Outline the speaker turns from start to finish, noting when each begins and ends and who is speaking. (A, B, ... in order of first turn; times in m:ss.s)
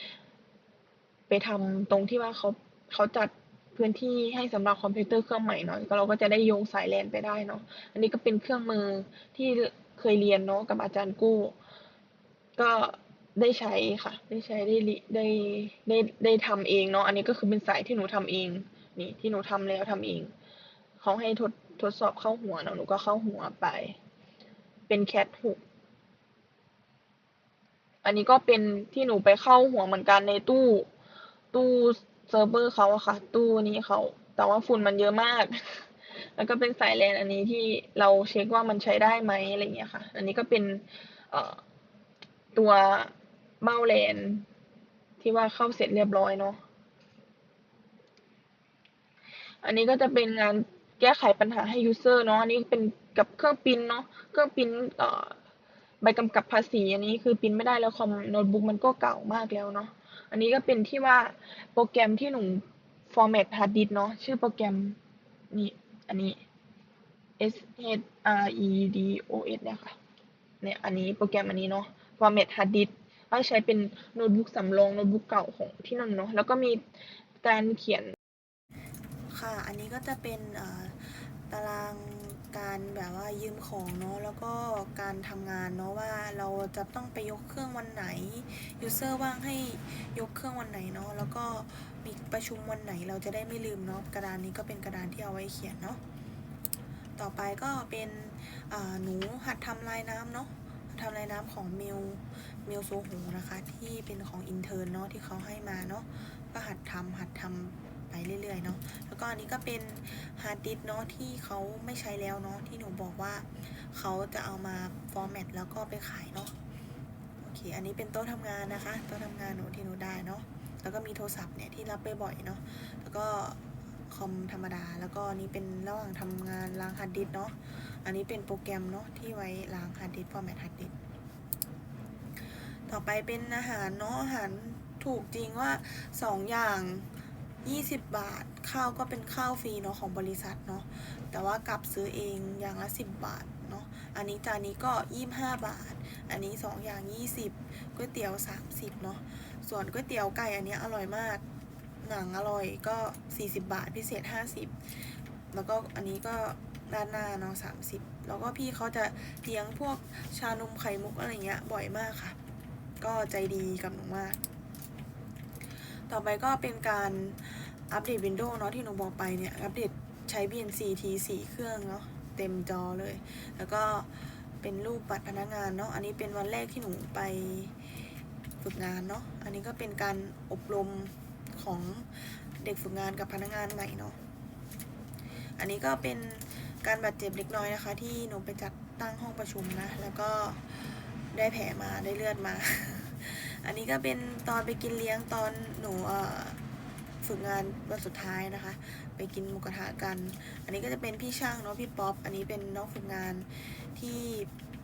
0:01.3-0:11.5 A
0:12.6-0:20.3 A
0:21.0-0:24.0 A
0:24.9-0:25.6 A
0:28.0-0:30.9 A
0:31.5-0:41.6 A
0:42.5-0:44.5 A
0:45.2-0:46.6 A
0:49.6-0:55.4 A
0:56.0-1:05.0 A
1:05.5-1:06.4 A
1:07.4-1:10.0 A
1:10.6-1:16.8 A
1:17.4-1:18.1 A
1:19.3-1:36.0 B
1:37.2-1:40.4 B
1:39.7-1:40.4 A
1:41.0-1:56.5 B
1:43.6-1:44.8 A
1:57.4-2:03.6 B
2:04.1-2:10.9 B
2:12.9-2:17.0 B
2:13.1-2:15.4 A
2:16.6-2:17.0 A
2:17.6-2:27.3 B
2:18.4-2:20.4 A
2:22.1-2:22.4 A
2:23.2-2:31.4 A
2:28.0-2:29.2 B
2:29.7-2:30.3 B
2:32.0-2:34.7 A
2:32.7-2:34.4 B
2:35.5-2:36.4 B
2:35.6-2:35.8 A
2:36.4-2:37.1 A
2:37.1-2:42.3 B
2:37.9-2:41.6 A
2:43.0-2:44.4 B
2:43.8-2:44.3 A
2:46.1-2:57.7 B
2:56.3-2:56.6 A
2:58.6-3:02.0 B
3:00.3-3:01.0 A
3:02.6-3:04.1 B
3:03.6-3:04.0 A
3:05.6-3:16.6 B
3:08.7-3:09.0 A
3:17.2-3:24.5 B